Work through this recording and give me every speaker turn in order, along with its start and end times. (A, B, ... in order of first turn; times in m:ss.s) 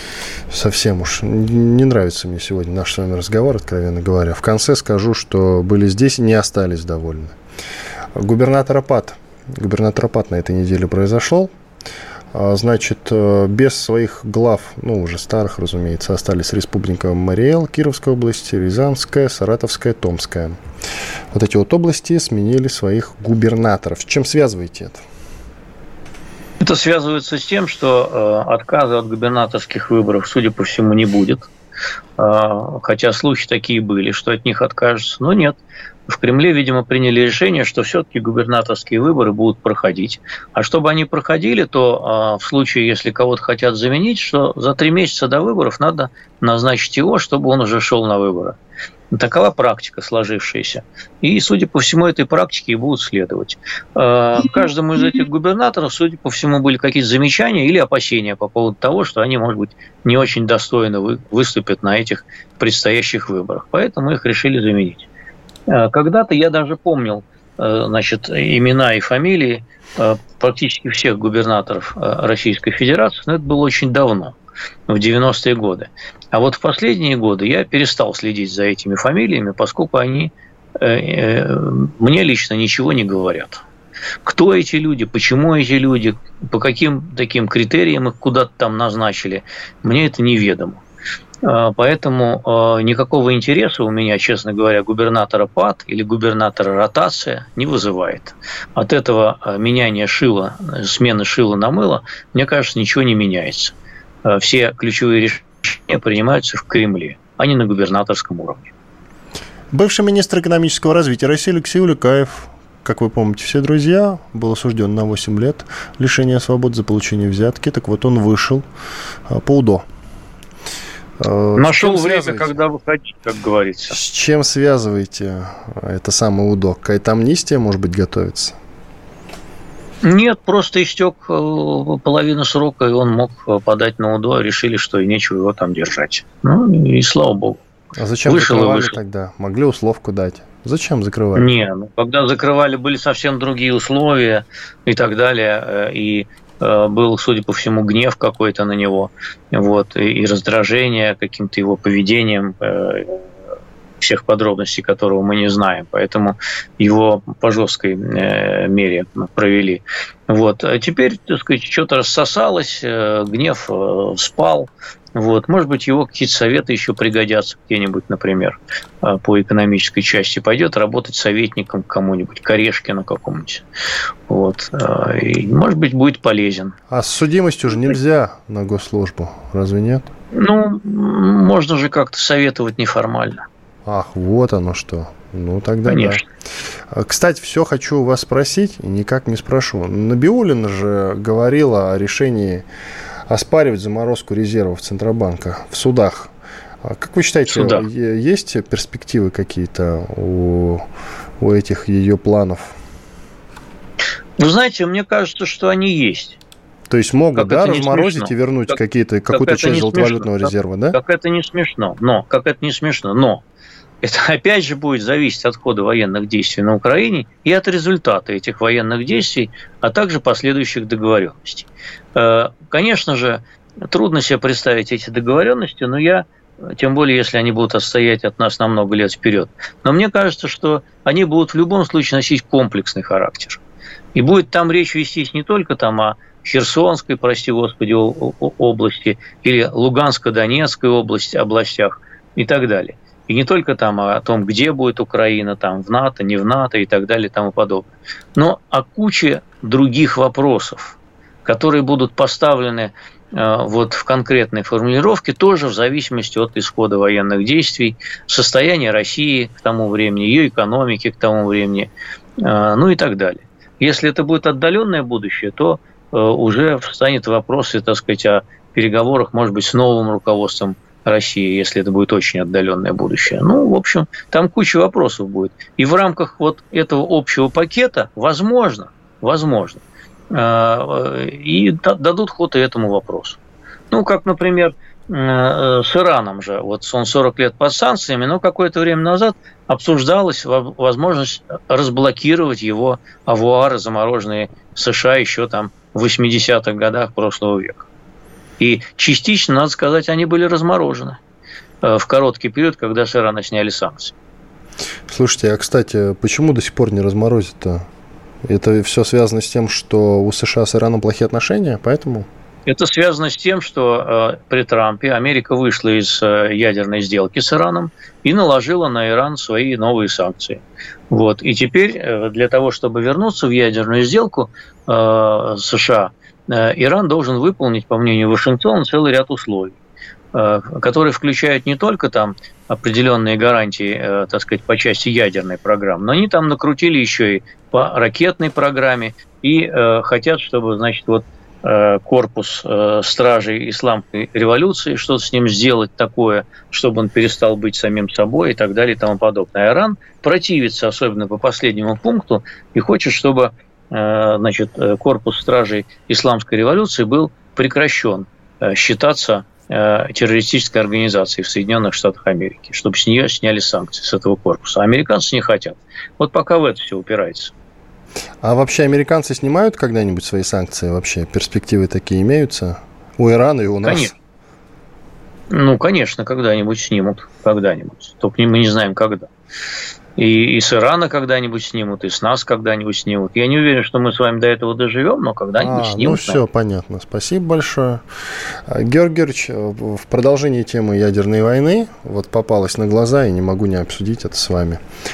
0:00.5-0:07.3 A
0:08.2-0:11.5 A
0:12.3-0:20.6 A
0:21.3-0:25.0 A
0:26.6-0:31.5 B
0:32.2-0:48.6 B
0:49.1-1:05.1 B
1:05.7-1:14.4 B
1:14.9-1:23.6 B
1:24.2-1:30.8 B
1:31.4-1:48.7 B
1:49.7-1:58.6 A
1:59.3-1:59.8 A
2:01.2-2:02.6 A
2:01.5-2:04.0 B
2:03.9-2:08.6 A
2:10.0-2:17.6 B
2:18.0-2:21.5 A
2:18.2-2:19.0 B
2:21.4-2:33.2 B
2:34.0-2:53.6 B
2:54.3-2:56.7 B
2:56.9-3:00.1 A
3:00.3-3:03.4 B
3:03.8-3:06.2 A
3:05.9-3:06.2 B
3:06.9-3:12.6 A
3:13.3-3:20.8 A
3:17.5-3:17.8 B
3:21.4-3:22.8 A
3:24.4-3:26.4 B
3:26.9-3:31.0 A
3:27.4-3:28.8 B
3:29.3-3:33.4 B
3:34.0-3:53.6 B
3:54.1-4:43.4 B
4:43.9-4:57.8 B
4:58.6-5:01.2 B
5:01.8-5:04.1 B
5:05.1-5:07.8 A
5:08.4-5:12.3 A
5:12.6-5:29.8 B
5:30.3-6:07.5 B
6:08.4-6:14.1 A
6:13.8-6:14.1 B
6:15.5-6:19.3 B
6:20.2-6:26.4 B
6:25.6-6:28.0 A
6:28.6-6:34.8 A